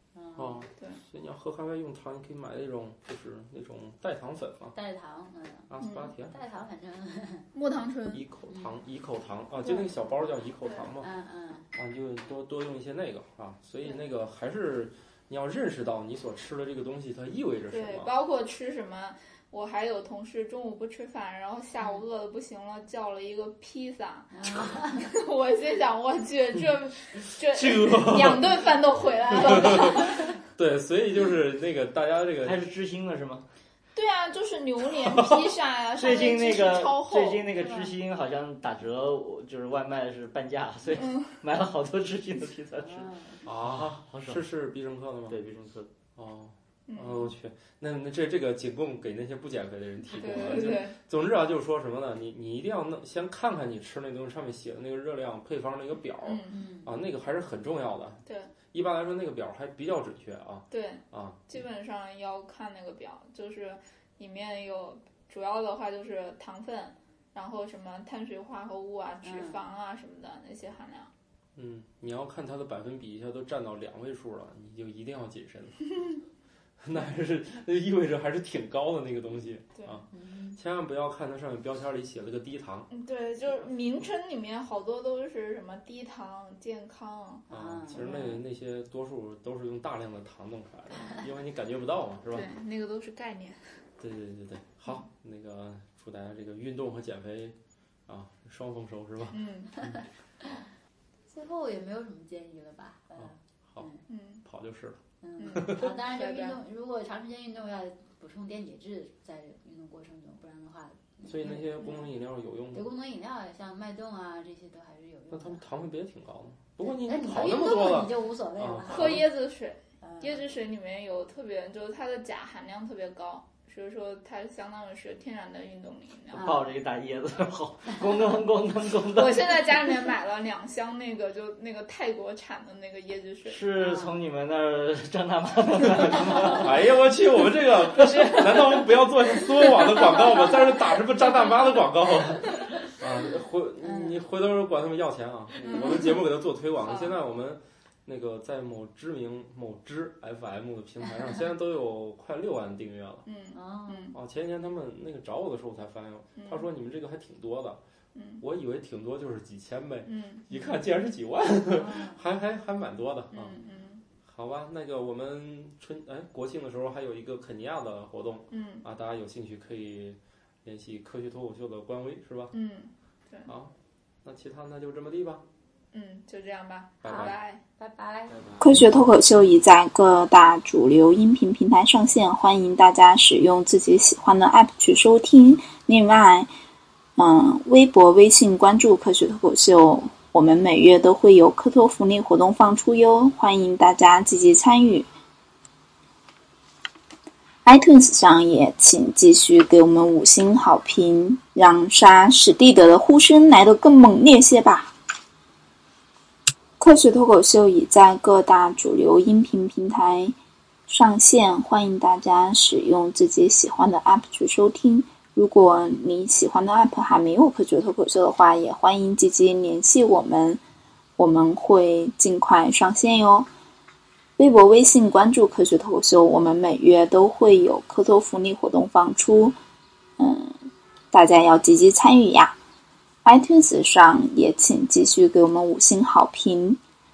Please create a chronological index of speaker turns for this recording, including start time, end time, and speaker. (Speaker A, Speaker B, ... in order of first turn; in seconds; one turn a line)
Speaker A: 0.1-0.6
Speaker B: 0.4-4.8
Speaker A: 4.8-5.7
Speaker B: 5.7-6.4
Speaker C: 5.8-6.1
Speaker A: 6.3-7.5
Speaker C: 7.5-8.2
Speaker B: 8.1-11.1
Speaker A: 8.5-8.8
Speaker C: 9.6-9.9
Speaker C: 10.6-10.9
Speaker A: 11.0-11.7
Speaker B: 11.7-18.1
Speaker C: 17.7-30.4
Speaker A: 24.3-25.1
Speaker B: 27.5-28.5
Speaker B: 29.3-32.6
Speaker A: 29.5-30.1
Speaker D: 32.4-33.5
Speaker C: 33.9-37.9
Speaker B: 35.0-35.4
Speaker D: 36.0-44.5
Speaker C: 40.9-41.3
Speaker A: 42.8-43.4
Speaker B: 43.5-45.4
Speaker D: 45.3-45.9
Speaker B: 46.2-61.5
Speaker C: 46.9-47.3
Speaker C: 50.1-51.0
Speaker C: 56.2-56.6
Speaker A: 56.5-56.9
Speaker C: 58.3-58.5
Speaker C: 60.7-71.1
Speaker A: 69.2-69.6
Speaker B: 71.6-75.9
Speaker B: 76.8-82.9
Speaker C: 79.8-80.0
Speaker A: 80.1-80.6
Speaker C: 82.9-88.4
Speaker B: 87.5-92.5
Speaker A: 87.5-88.4
Speaker C: 92.3-93.6
Speaker B: 94.0-97.6
Speaker B: 98.1-100.0
Speaker C: 99.3-99.7
Speaker A: 101.3-104.0
Speaker B: 103.2-103.9
Speaker C: 104.1-104.4
Speaker B: 104.4-105.0
Speaker A: 105.2-112.1
Speaker C: 105.4-106.6
Speaker B: 105.5-105.9
Speaker B: 111.3-112.9
Speaker A: 112.7-115.6
Speaker B: 115.3-119.3
Speaker A: 117.0-119.2
Speaker C: 118.9-126.6
Speaker A: 120.0-120.4
Speaker A: 126.3-126.7
Speaker D: 126.3-129.7
Speaker C: 129.2-133.6
Speaker D: 133.5-136.9
Speaker A: 133.8-134.2
Speaker B: 136.0-153.3
Speaker C: 138.0-138.9
Speaker D: 138.0-138.3
Speaker C: 139.5-140.3
Speaker A: 143.8-144.2
Speaker C: 145.6-146.2
Speaker C: 153.3-154.2
Speaker A: 153.5-154.2
Speaker B: 154.1-157.8
Speaker C: 156.4-156.7
Speaker C: 158.2-158.4
Speaker B: 158.4-163.6
Speaker C: 160.1-160.5
Speaker A: 161.7-162.2
Speaker C: 163.3-164.0
Speaker B: 164.2-172.5
Speaker C: 168.5-168.8
Speaker C: 172.5-173.5
Speaker B: 173.5-173.7
Speaker B: 174.2-175.4
Speaker C: 175.9-177.6
Speaker B: 177.0-177.3
Speaker A: 177.8-178.4
Speaker E: 178.6-186.5
Speaker E: 187.2-195.1
Speaker E: 197.7-204.9
Speaker E: 206.8-210.3
Speaker E: 210.9-220.6
Speaker E: 221.2-223.5
Speaker E: 224.4-229.6
Speaker E: 230.2-230.6
Speaker E: 231.1-232.6
Speaker E: 233.2-236.8